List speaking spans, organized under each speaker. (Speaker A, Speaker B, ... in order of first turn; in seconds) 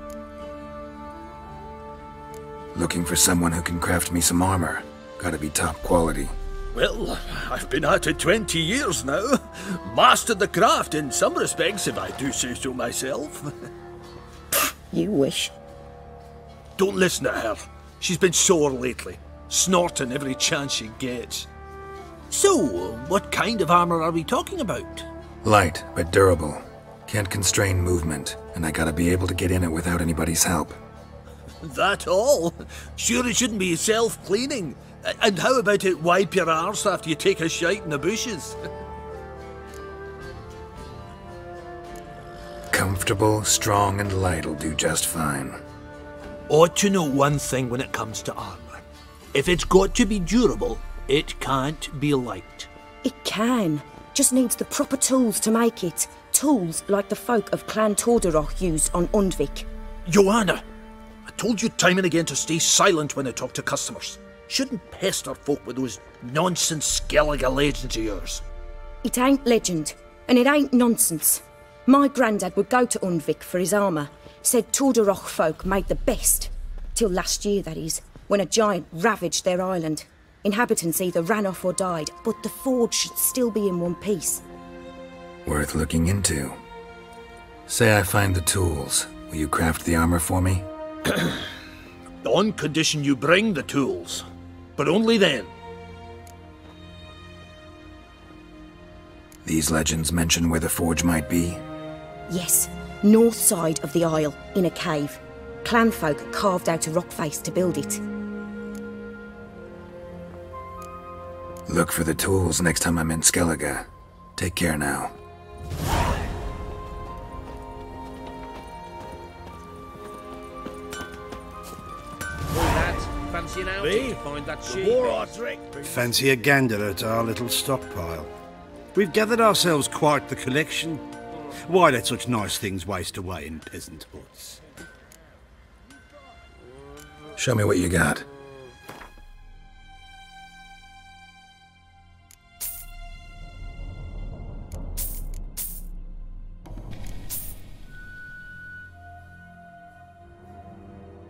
Speaker A: 2.7-6.3, 25.4-30.8, 42.7-45.6, 85.5-86.6, 87.7-90.7, 99.4-101.6, 111.7-115.2, 137.4-138.3
Speaker B: 6.7-13.5, 16.8-21.5, 22.3-25.1, 31.6-38.6, 46.5-48.8, 49.3-52.7, 60.1-60.6, 61.3-68.4, 92.2-94.3, 94.8-95.5
Speaker C: 14.9-15.5, 53.0-59.7, 69.0-84.4, 102.3-108.0
Speaker D: 122.5-126.1
Speaker E: 123.8-124.1, 124.7-125.3, 125.8-128.3, 128.9-131.0, 131.7-134.6